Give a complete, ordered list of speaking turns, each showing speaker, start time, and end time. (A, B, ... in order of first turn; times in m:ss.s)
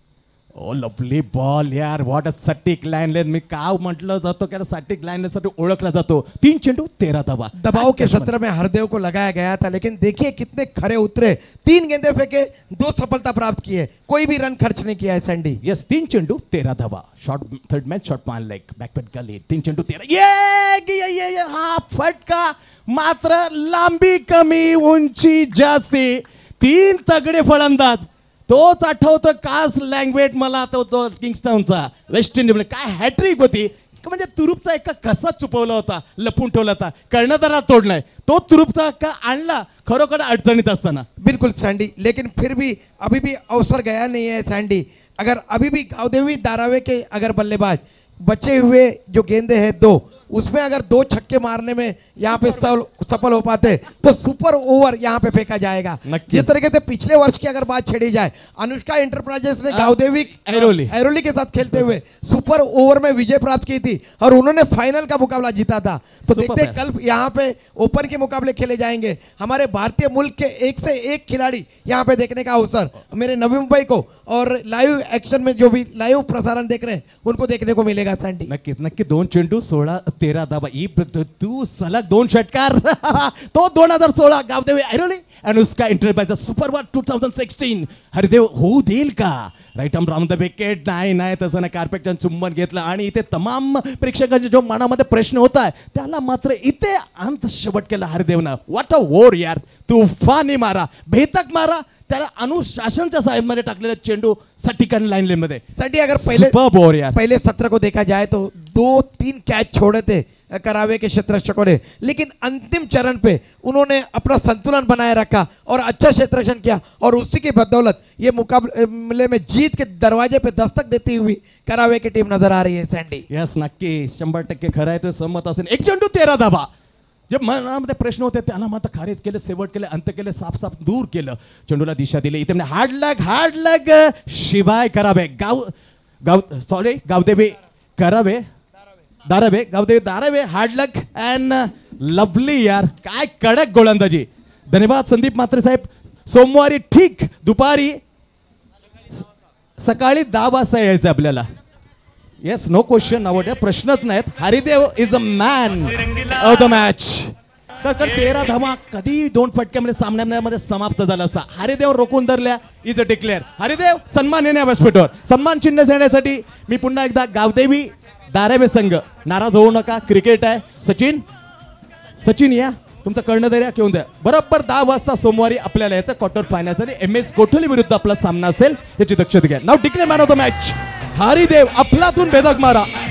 0:00.5-0:08.3 A
0:07.6-0:15.6 B
0:15.6-0:41.0 A
0:41.2-1:18.5 B
0:56.0-0:56.5 A
0:59.7-1:01.0 A
1:01.6-1:01.9 A
1:06.2-1:06.8 A
1:18.5-1:45.6 A
1:45.8-1:46.5 B
1:46.1-1:47.2 A
1:47.1-2:03.2 B
2:03.3-2:06.7 A
2:07.3-2:15.7 A
2:16.2-2:18.4 A
2:19.3-2:28.0 A
2:29.8-2:31.4 A
2:32.4-2:51.2 A
2:52.2-3:02.9 A